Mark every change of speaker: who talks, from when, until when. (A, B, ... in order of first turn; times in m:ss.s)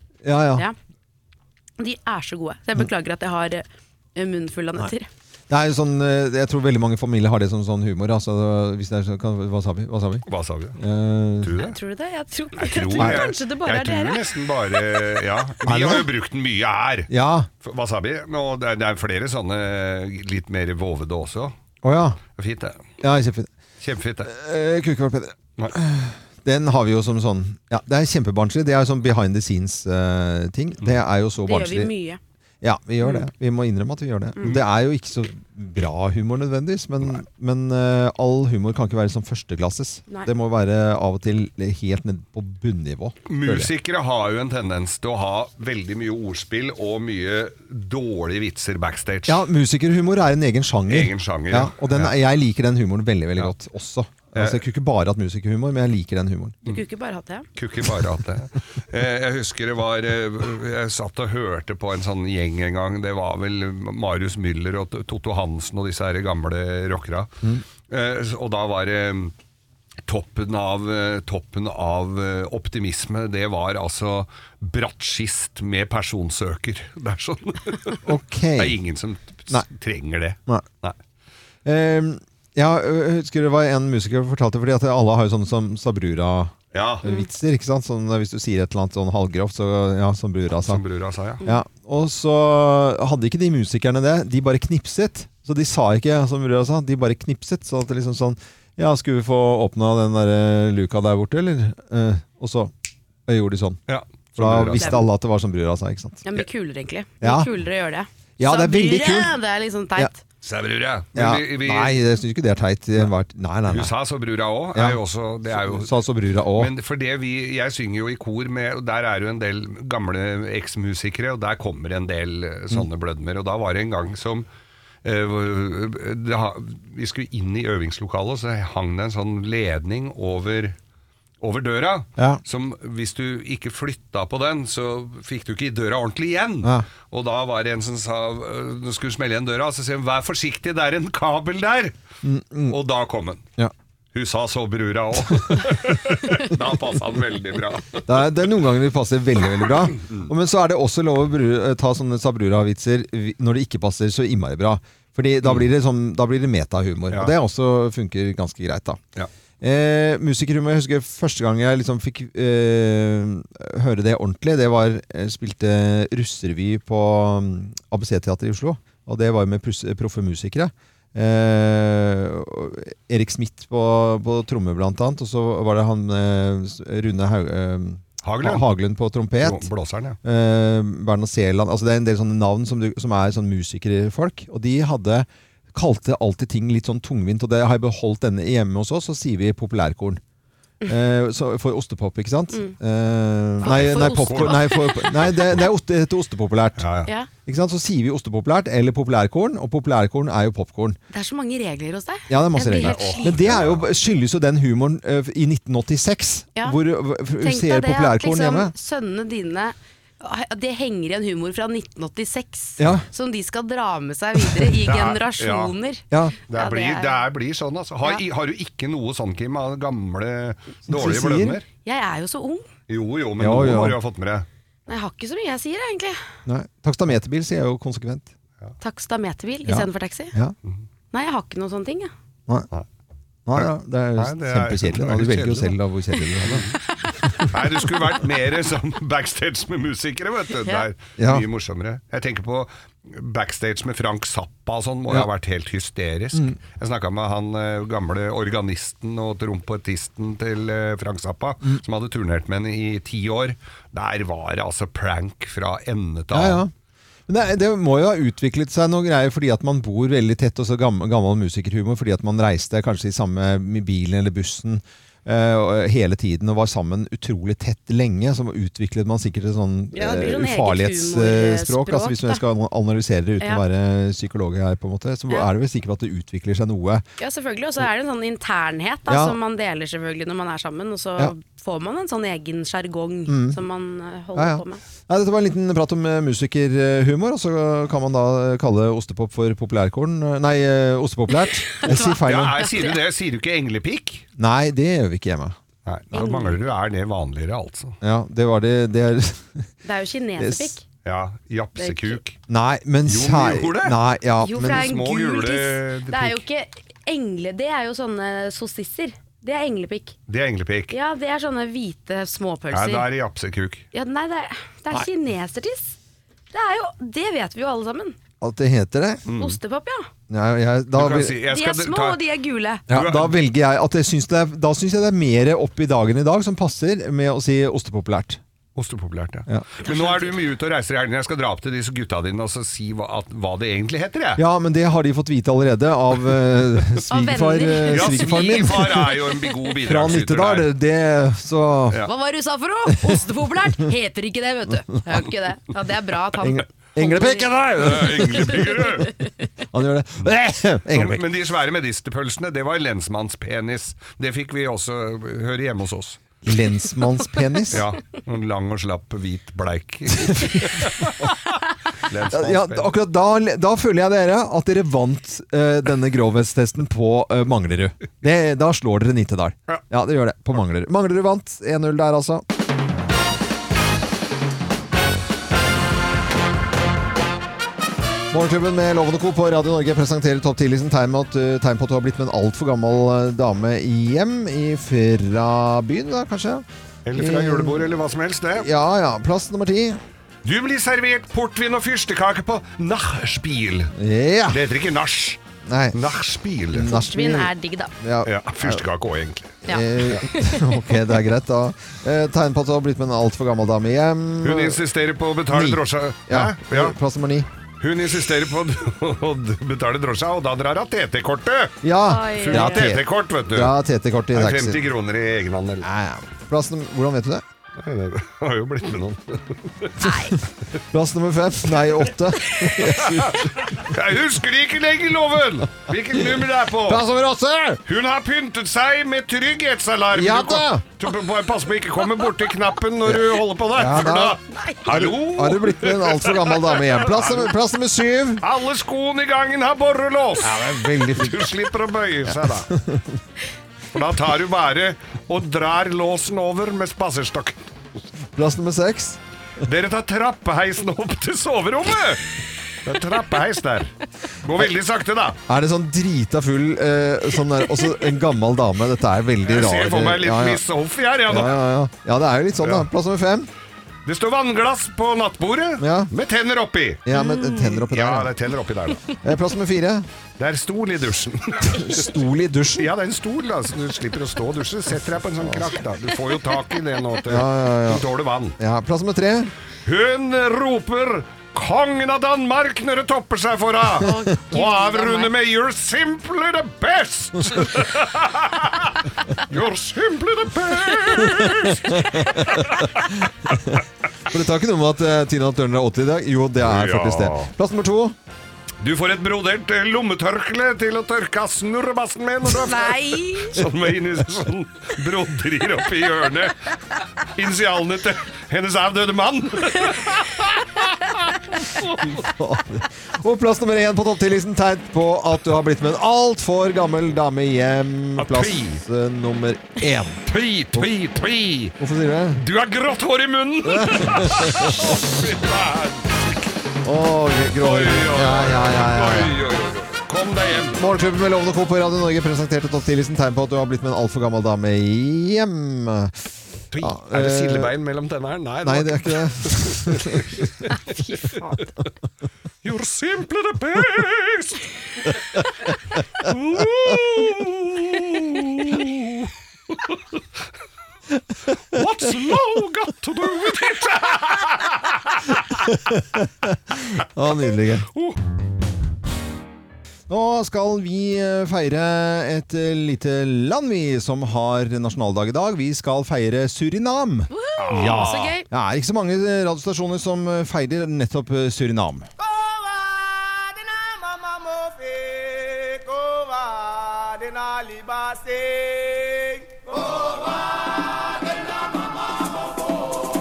0:00.2-0:00.6 A
0:01.8-0:05.1 B
0:05.5-0:10.2 A
0:10.3-0:10.8 C
0:10.8-0:11.6 A
0:11.4-0:11.8 C
0:11.6-0:14.8 B
0:12.6-0:17.1 C
0:13.0-0:13.3 A
0:15.6-0:16.1 A
0:17.1-0:17.5 A
0:17.6-0:21.5 C
0:21.8-0:22.2 A
0:22.4-0:22.8 C
0:23.0-0:23.5 A
0:23.8-0:24.3 C
0:24.2-0:31.9 A
0:31.4-0:32.2 B
0:32.6-0:43.7 A
0:43.3-0:49.4 C
0:49.3-0:56.6 A
0:50.9-0:52.1 C
0:54.3-0:54.6 C
0:56.6-0:57.5 B
0:57.6-1:07.3 C
1:07.9-1:09.3 C
1:10.0-1:18.0 C
1:18.0-1:18.8 A
1:18.6-1:21.0 C
1:21.6-1:30.8 A
1:26.7-1:27.0 C
1:30.6-1:31.4 C
1:31.4-1:42.7 A
1:43.3-1:43.8 A
1:43.9-1:45.0 C
1:44.4-1:46.2 A
1:44.7-1:45.0 B
1:46.2-1:50.2 B
1:47.2-1:47.5 A
1:48.4-1:49.3 A
1:50.4-1:52.0 C
1:51.1-1:53.9 A
1:53.7-1:55.9 C
1:54.7-1:55.0 A
1:55.5-1:56.7 A
1:56.5-2:04.4 C
2:05.0-2:10.8 C
2:11.4-2:21.9 C
2:12.2-2:12.4 A
2:22.2-2:22.8 A
2:22.7-2:23.4 C
2:24.1-2:28.4 C
2:28.1-2:39.0 A
2:30.0-2:30.2 C
2:39.6-2:59.7 A
2:58.2-2:58.7 C
2:59.4-3:00.2 C
3:00.2-3:10.2 A
3:10.8-3:16.8 A
3:13.6-3:15.2 B
3:13.7-3:15.6 C
3:16.8-3:17.1 C
3:17.4-3:21.0 A
3:21.1-3:23.4 B
3:22.3-3:28.7 A
3:22.7-3:23.8 C
3:27.4-3:37.2 B
3:32.8-3:33.0 A
3:34.8-3:35.7 C
3:36.1-3:36.4 A
3:36.5-3:41.6 C
3:40.9-3:41.6 A
3:41.8-3:42.7 B
3:42.9-3:44.5 C
3:43.4-3:44.0 A
3:44.9-3:46.2 B
3:46.4-3:48.3 A
3:48.8-3:50.4 B
3:49.6-3:50.5 A
3:51.1-3:52.1 B
3:53.4-3:56.7 A
3:53.5-3:55.8 C
3:56.4-3:56.7 C
3:57.2-3:57.6 A
3:57.5-4:16.6 C
4:01.2-4:01.4 A
4:16.3-4:16.7 A
4:17.3-4:37.0 A
4:29.9-4:32.4 B
4:37.2-4:44.8 B
4:39.1-4:39.4 A
4:43.3-4:43.6 A
4:44.3-4:52.6 A
4:51.7-4:53.0 B
4:52.2-4:54.2 C
4:54.4-4:55.6 A
4:55.8-4:58.0 C
4:56.1-4:56.6 B
4:58.0-4:59.6 A
4:59.8-5:00.8 B
5:00.4-5:00.7 A
5:01.0-5:02.4 C
5:01.8-5:02.2 B
5:02.5-5:04.9 A
5:03.1-5:04.0 C
5:04.4-5:10.2 B
5:04.6-5:06.4 C
5:10.3-5:10.9 C
5:10.9-5:13.1 B
5:12.7-5:13.8 C
5:13.9-5:15.9 B
5:16.5-5:18.2 B
5:18.4-5:19.2 A
5:19.3-5:19.6 C
5:19.4-5:20.1 B
5:20.3-5:21.4 A
5:20.9-5:22.2 C
5:21.5-5:22.8 B
5:22.9-5:23.4 C
5:22.9-5:28.4 A
5:28.7-5:34.4 C
5:29.8-5:30.4 B
5:34.4-5:39.1 A
5:37.1-5:39.1 B
5:37.9-5:40.7 C
5:39.8-5:42.0 A
5:42.0-5:47.5 B
5:46.4-5:48.7 A
5:47.8-5:49.1 C
5:49.7-5:51.2 A
5:50.9-5:56.2 C
5:56.4-5:57.9 A
5:57.7-6:01.2 C
6:00.2-6:00.6 A
6:02.0-6:02.9 C
6:02.3-6:12.4 A
6:18.3-6:28.0 A
6:27.0-6:28.7 C
6:28.5-6:30.0 A
6:30.4-6:33.9 C
6:34.0-6:34.6 A
6:34.5-6:35.4 C
6:35.6-6:36.0 A
6:35.9-6:36.9 C
6:36.7-6:38.8 A
6:36.8-6:37.9 B
6:38.2-6:40.2 C
6:39.7-6:41.0 B
6:39.7-6:44.8 A
6:44.4-6:46.9 C
6:45.5-6:47.5 A
6:47.8-6:51.8 C
6:51.8-6:54.8 A
6:52.0-6:52.9 B
6:52.4-6:53.7 C
6:54.3-6:55.8 C
6:55.8-6:57.4 A
6:57.8-6:59.9 C
7:00.0-7:00.4 B
7:00.0-7:00.3 A
7:00.9-7:03.5 A
7:02.9-7:07.0 C
7:06.8-7:07.8 A
7:07.8-7:17.5 C
7:10.1-7:10.8 A
7:13.0-7:18.4 A
7:18.4-7:22.7 C
7:20.4-7:21.5 A
7:22.3-7:23.2 A
7:23.9-7:27.6 C
7:28.4-7:29.2 A
7:29.6-7:32.2 C
7:32.8-7:33.9 C
7:34.4-7:35.4 C
7:35.5-7:40.6 A
7:39.4-7:41.6 C
7:41.3-7:43.5 A
7:42.6-7:42.9 C
7:44.0-7:47.0 C
7:45.8-7:46.1 A
7:47.0-7:48.3 A
7:47.1-7:47.8 B
7:47.9-7:49.2 C
7:49.2-7:50.1 A
7:50.4-7:52.1 C
7:51.6-7:52.9 A
7:52.8-7:58.5 C
7:55.4-7:55.7 A
7:57.3-7:58.0 A
7:58.6-7:59.5 A
7:59.8-8:13.0 C
8:04.0-8:05.3 B
8:13.4-8:18.2 A
8:16.6-8:17.5 C
8:18.8-8:26.6 C
8:22.5-8:23.6 B
8:27.4-8:32.2 C
8:32.2-8:40.9 A
8:38.2-8:38.8 C
8:40.2-8:41.7 C
8:41.8-8:42.4 A
8:42.3-8:46.5 C
8:43.6-8:45.0 A
8:46.8-8:49.3 A
8:47.6-8:50.8 C
8:50.8-8:57.7 A
8:56.7-9:01.2 C
8:58.6-9:00.4 A
9:02.6-9:04.6 C
9:06.2-9:10.0 C
9:11.7-9:15.7 C
9:15.9-9:17.9 A
9:20.1-9:32.1 A
9:27.3-9:28.4 B
9:27.6-9:28.3 C